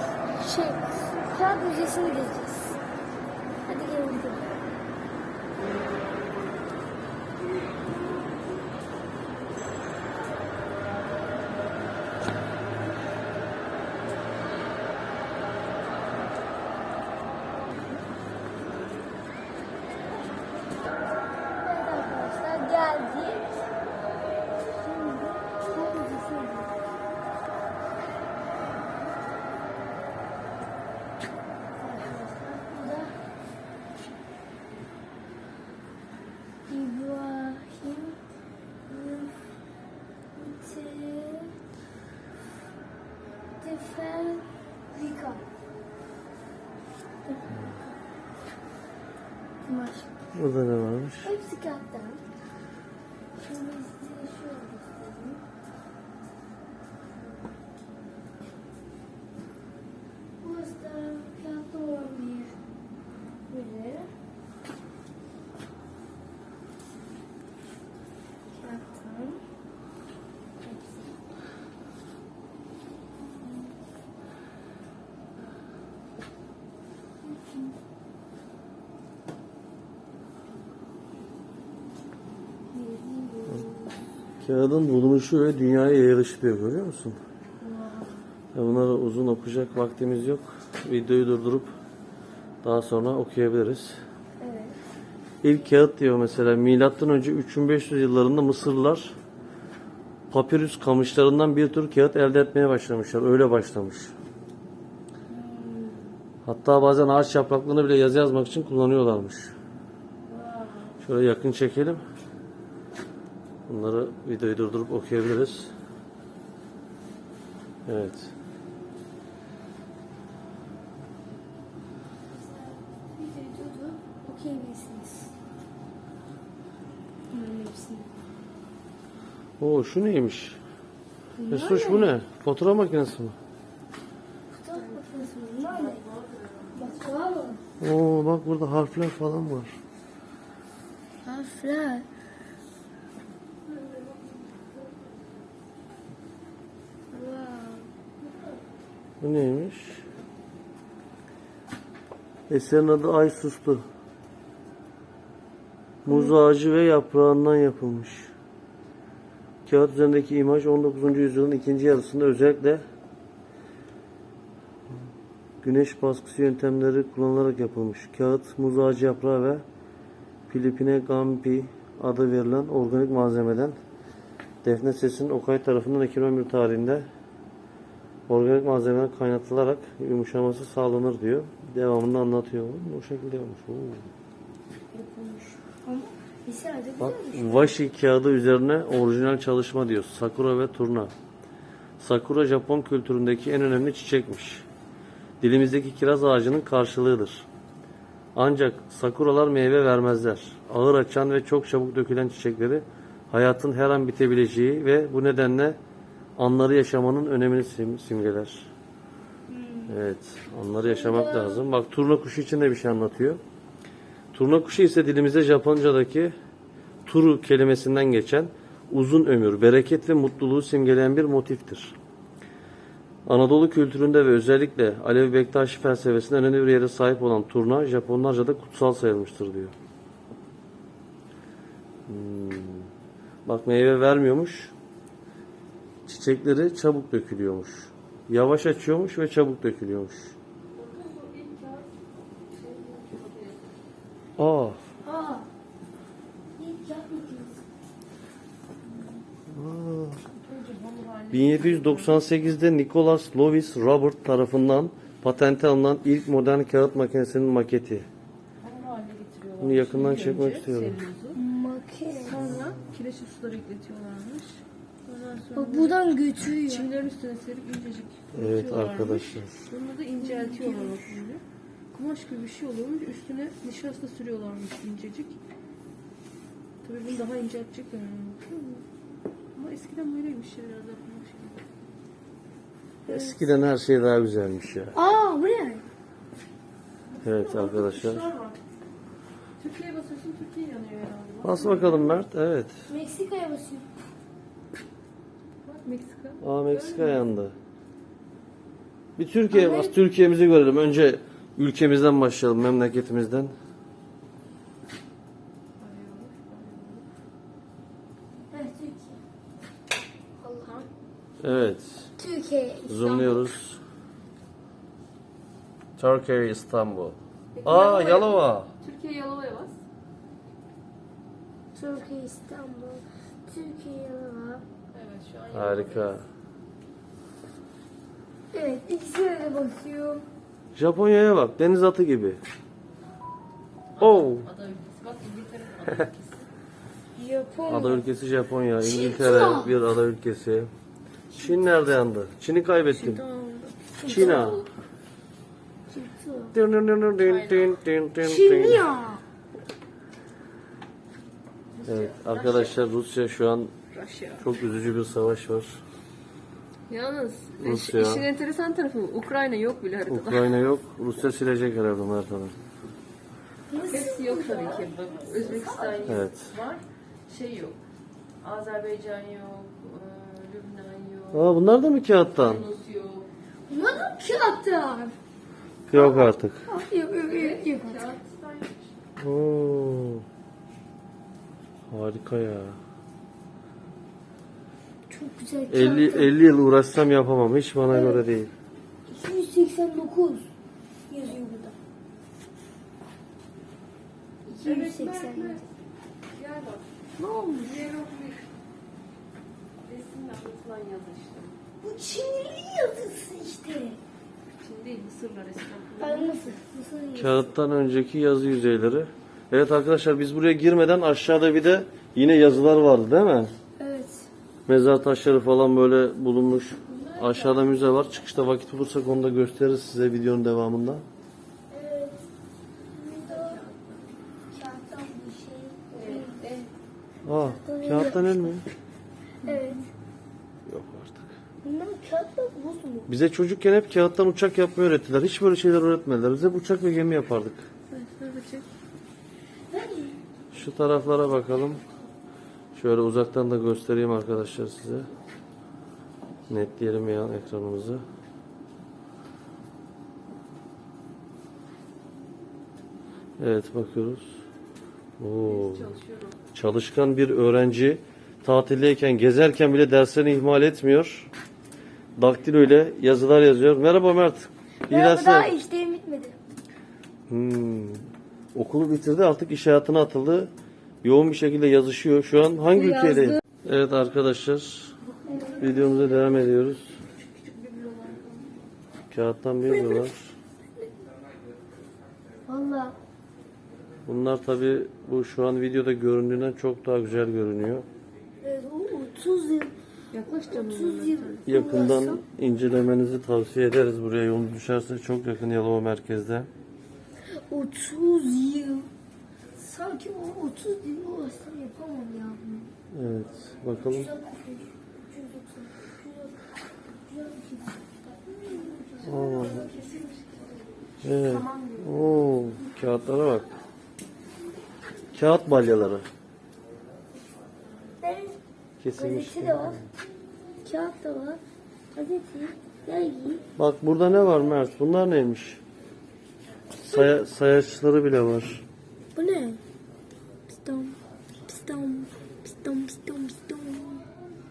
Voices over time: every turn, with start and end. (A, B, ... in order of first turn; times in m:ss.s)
0:00.3-0:02.8 A
0:03.7-0:04.5 A
0:21.6-0:23.5 A
0:24.7-0:26.7 A
0:31.7-0:33.2 A
0:36.7-0:38.2 A
0:38.9-0:39.4 A
0:40.4-0:41.5 A
0:43.6-0:45.4 A
0:47.3-0:47.8 A
0:49.6-0:50.1 A
0:50.3-0:51.3 B
0:51.2-0:52.2 A
0:53.4-0:55.4 A
1:00.4-1:02.6 A
1:03.5-1:04.1 A
1:08.5-1:09.4 A
1:10.6-1:11.1 A
1:22.7-1:24.0 A
1:24.4-1:27.2 B
1:27.6-1:28.2 A
1:28.6-1:31.7 B
1:32.6-1:34.0 B
1:34.4-1:34.8 A
1:35.4-1:39.2 B
1:40.3-1:44.1 B
1:45.3-1:46.1 A
1:46.4-1:49.5 B
1:50.3-1:50.9 A
1:51.0-1:52.0 B
1:53.7-1:55.7 B
1:57.9-1:58.3 B
2:02.3-2:05.3 A
2:07.3-2:08.1 A
2:09.6-2:10.6 B
2:11.4-2:12.1 A
2:11.5-2:13.4 B
2:14.5-2:16.0 A
2:14.7-2:17.0 C
2:16.7-2:17.6 A
2:17.8-2:19.7 B
2:21.2-2:22.1 A
2:27.1-2:27.9 A
2:29.2-2:30.0 B
2:32.5-2:33.8 B
2:36.0-2:38.3 B
2:39.7-2:42.8 B
2:45.6-2:49.6 B
2:50.5-2:53.8 B
2:54.6-2:57.1 B
2:58.3-3:04.1 B
3:04.9-3:05.6 C
3:05.8-3:07.7 A
3:07.0-3:11.1 B
3:12.0-3:14.6 B
3:15.4-3:17.5 B
3:18.4-3:25.8 B
3:26.4-3:28.7 B
3:29.5-3:30.0 A
3:29.9-3:33.4 B
3:30.8-3:31.6 A
3:34.3-3:36.3 B
3:37.1-3:42.0 B
3:43.3-3:49.7 B
3:52.1-3:52.9 B
3:53.5-3:54.7 B
3:56.1-4:00.4 B
4:00.8-4:01.9 C
4:02.5-4:03.8 C
4:04.4-4:04.8 B
4:05.0-4:05.5 A
4:06.6-4:07.6 A
4:09.5-4:10.2 B
4:10.3-4:12.2 C
4:11.3-4:18.1 B
4:18.6-4:21.4 C
4:19.6-4:21.0 B
4:21.3-4:22.4 A
4:22.2-4:26.0 C
4:25.6-4:26.9 A
4:26.7-4:31.4 C
4:28.4-4:29.5 B
4:30.2-4:31.2 A
4:31.9-4:35.4 C
4:36.8-4:38.8 C
4:39.6-4:41.6 C
4:43.1-4:43.5 A
4:43.1-4:45.0 B
4:45.0-4:45.8 A
4:47.1-4:48.6 C
4:47.2-4:48.3 B
4:49.6-4:52.2 C
4:51.4-4:52.7 B
4:52.9-4:53.9 A
4:55.6-4:57.3 C
4:56.4-4:57.6 B
4:59.2-5:03.5 B
4:59.5-5:00.0 A
5:05.8-5:07.0 C
5:08.5-5:09.2 A
5:10.4-5:10.7 A
5:10.6-5:10.9 C
5:11.4-5:12.1 B
5:12.2-5:13.4 A
5:12.9-5:13.8 B
5:16.0-5:18.7 B
5:17.6-5:19.8 C
5:21.8-5:24.6 A
5:24.9-5:26.3 C
5:25.5-5:26.2 B
5:28.5-5:30.3 A
5:30.8-5:32.4 B
5:34.0-5:36.5 C
5:34.0-5:34.5 B
5:37.2-5:38.1 A
5:37.7-5:40.7 B
5:38.8-5:39.8 A
5:41.4-5:43.2 B
5:42.9-5:44.7 C
5:44.0-5:44.5 A
5:44.0-5:44.7 B
5:45.9-5:46.6 A
5:46.5-5:48.9 B
5:47.2-5:47.8 C
5:48.2-5:49.2 A
5:51.7-5:52.8 C
5:51.8-5:53.7 B
5:53.9-5:54.5 C
5:54.4-5:55.8 B
5:56.9-6:00.6 C
5:57.6-5:58.3 B
6:00.1-6:02.5 B
6:03.7-6:06.2 A
6:03.9-6:07.8 C
6:06.1-6:06.5 B
6:08.4-6:11.5 C
6:11.3-6:12.7 B
6:12.3-6:13.3 C
6:13.7-6:15.2 A
6:15.9-6:16.6 B
6:15.9-6:18.1 A
6:17.2-6:19.0 C
6:19.2-6:20.2 B
6:21.9-6:22.8 B
6:25.1-6:26.3 A
6:25.7-6:28.5 B
6:27.9-6:28.2 A
6:29.1-6:30.5 A
6:31.1-6:31.8 A
6:34.5-6:35.6 A
6:34.6-6:35.6 C
6:36.3-6:36.9 C
6:37.2-6:37.9 A
6:37.6-6:38.5 C
6:39.8-6:41.6 C
6:41.8-6:44.0 A
6:44.5-6:46.6 C
6:46.0-6:47.5 A
6:47.2-6:53.5 B
6:53.8-6:54.3 A
6:54.7-7:01.0 B
6:56.9-6:57.7 C
7:01.7-7:02.2 A
7:03.0-7:03.6 A
7:03.1-7:04.2 C
7:04.5-7:06.6 A
7:05.9-7:06.7 C
7:07.3-7:08.6 B
7:07.3-7:08.6 A
7:09.4-7:09.9 A
7:09.4-7:09.8 C
7:10.7-7:11.3 B
7:11.6-7:13.1 A
7:13.1-7:17.6 B
7:17.9-7:18.7 C
7:19.7-7:20.2 A
7:20.5-7:21.8 B
7:22.8-7:25.1 B
7:26.5-7:28.0 B
7:33.4-7:34.4 B
7:35.2-7:35.9 B
7:35.4-7:36.4 C
7:36.5-7:41.3 B
7:42.2-7:45.6 B
7:44.9-7:46.4 A
7:47.3-7:50.5 B
7:51.0-7:54.9 B
7:52.8-7:53.4 A
7:55.3-7:56.1 A
7:55.6-7:57.0 B
7:57.1-7:58.6 C
7:59.1-8:00.3 B
7:59.7-8:00.1 A
8:02.5-8:03.0 A
8:04.1-8:07.9 B
8:08.4-8:09.7 A
8:10.1-8:11.5 C
8:10.5-8:12.2 A
8:11.5-8:16.5 B
8:17.5-8:18.9 A
8:19.6-8:22.7 A
8:22.9-8:24.1 B
8:23.9-8:26.4 A
8:27.0-8:30.0 A
8:29.0-8:29.7 B
8:29.2-8:30.5 C
8:31.0-8:33.5 B
8:31.1-8:32.2 C
8:35.1-8:36.0 B
8:38.0-8:38.4 A
8:38.8-8:39.8 B
8:39.0-8:39.8 A
8:40.6-8:41.4 A
8:42.0-8:43.4 A
8:43.6-8:45.6 B
8:46.8-8:48.6 B
8:46.8-8:47.2 A
8:49.2-8:49.6 A
8:50.5-8:54.0 A